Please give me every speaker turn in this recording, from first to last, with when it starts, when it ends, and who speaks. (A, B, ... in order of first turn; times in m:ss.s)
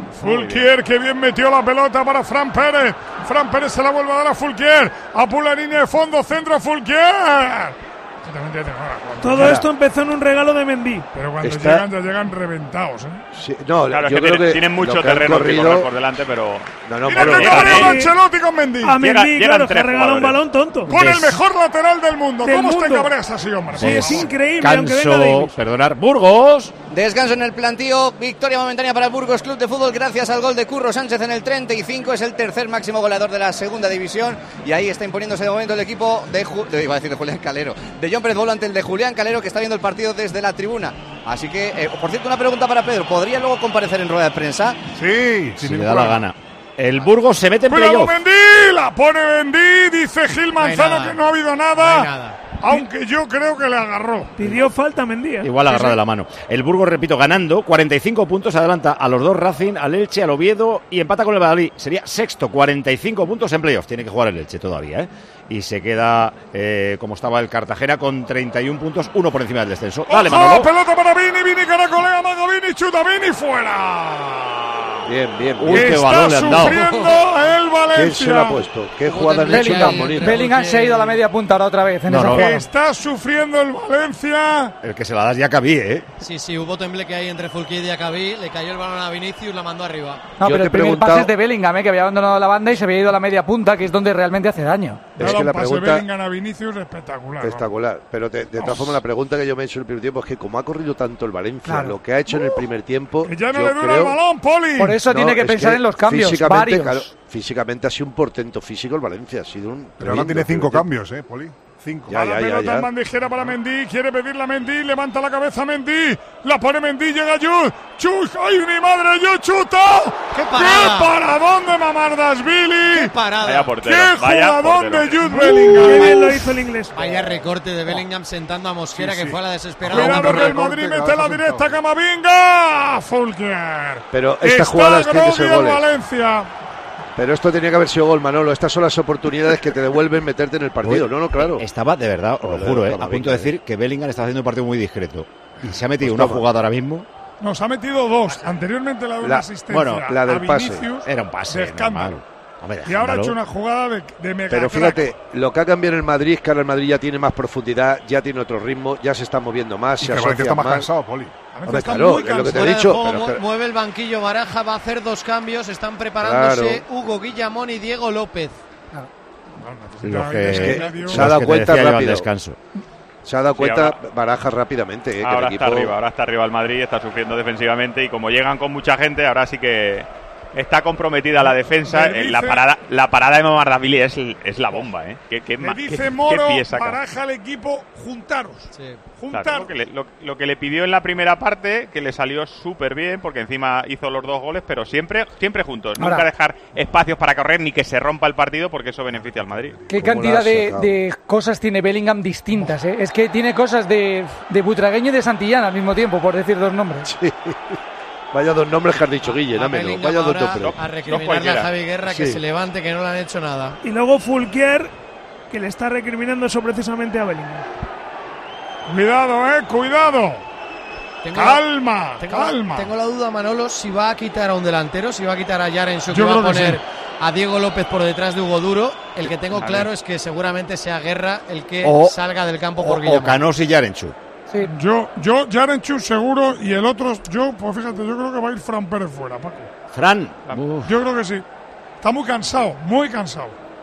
0:00.2-0:09.6 A
0:00.2-0:00.7 B
0:09.2-0:11.0 C
0:09.3-0:09.6 D
0:11.1-0:13.2 A
0:11.4-0:11.8 D
0:13.3-0:15.9 D
0:13.9-0:18.0 B
0:16.9-0:17.9 D
0:17.0-0:19.0 A
0:17.7-0:18.2 C
0:18.8-0:21.0 C
0:19.0-0:20.4 B
0:20.9-0:24.3 A
0:20.9-0:21.4 E
0:22.4-0:23.1 C
0:23.7-0:25.5 C
0:23.7-0:26.7 E
0:26.9-0:44.8 F
0:44.9-0:46.2 G
0:45.6-0:48.1 E
0:47.7-0:54.4 A
0:50.6-0:51.2 H
0:51.8-0:52.4 H
0:54.4-0:55.6 C
0:55.4-1:10.7 E
1:10.1-1:15.1 A
1:15.0-1:16.0 D
1:15.6-1:16.8 E
1:15.7-1:18.6 A
1:16.7-1:17.0 H
1:17.9-1:20.4 D
1:19.0-1:21.2 H
1:19.5-1:22.7 I
1:22.1-1:22.4 E
1:22.2-1:24.7 A
1:24.8-1:26.1 E
1:26.2-1:30.3 H
1:30.4-1:35.1 I
1:30.4-1:31.3 D
1:35.2-1:36.0 D
1:35.2-1:37.7 A
1:37.4-1:44.2 D
1:38.6-1:39.0 A
1:41.6-1:42.0 I
1:43.2-1:45.0 A
1:44.8-1:47.1 I
1:45.0-1:50.9 D
1:50.0-1:52.4 G
1:52.1-1:52.9 D
1:52.3-2:03.1 A
2:00.3-2:01.1 H
2:02.9-2:03.7 H
2:03.4-2:05.4 B
2:03.8-2:06.4 A
2:05.6-2:07.0 C
2:06.9-2:10.5 H
2:08.9-2:11.8 G
2:09.8-2:16.5 A
2:14.1-2:15.8 D
2:17.2-2:21.6 D
2:20.8-2:27.0 E
2:22.4-2:23.5 D
2:26.0-2:26.4 D
2:27.4-2:32.2 A
2:29.7-2:30.1 E
2:30.0-2:30.8 D
2:31.0-2:33.3 E
2:32.8-2:35.1 A
2:34.5-2:40.9 D
2:40.0-2:41.3 G
2:41.5-2:42.6 A
2:41.7-2:43.4 D
2:42.1-2:48.6 H
2:46.2-2:46.8 D
2:49.6-2:51.3 A
2:50.0-2:52.6 E
2:50.5-2:52.3 D
2:53.2-2:55.9 D
2:53.6-2:54.0 B
2:55.2-3:07.0 B
3:01.4-3:02.6 A
3:05.6-3:09.7 A
3:08.7-3:09.0 H
3:09.3-3:19.8 B
3:16.0-3:16.2 I
3:19.9-3:27.1 I
3:19.9-3:20.9 D
3:27.0-3:27.7 D
3:28.3-3:30.8 D
3:29.2-3:33.8 H
3:30.6-3:31.7 B
3:32.0-3:32.4 D
3:33.8-3:34.9 C
3:35.5-3:37.6 C
3:38.9-3:40.4 A
3:41.2-3:41.7 H
3:41.3-3:42.9 A
3:42.2-3:53.4 H
3:46.1-3:46.8 A
3:49.5-3:49.9 B
3:51.8-3:52.2 E
3:52.8-3:54.1 E
3:54.6-3:59.7 A
3:59.9-4:00.9 E
4:00.8-4:01.4 A
4:02.0-4:03.6 A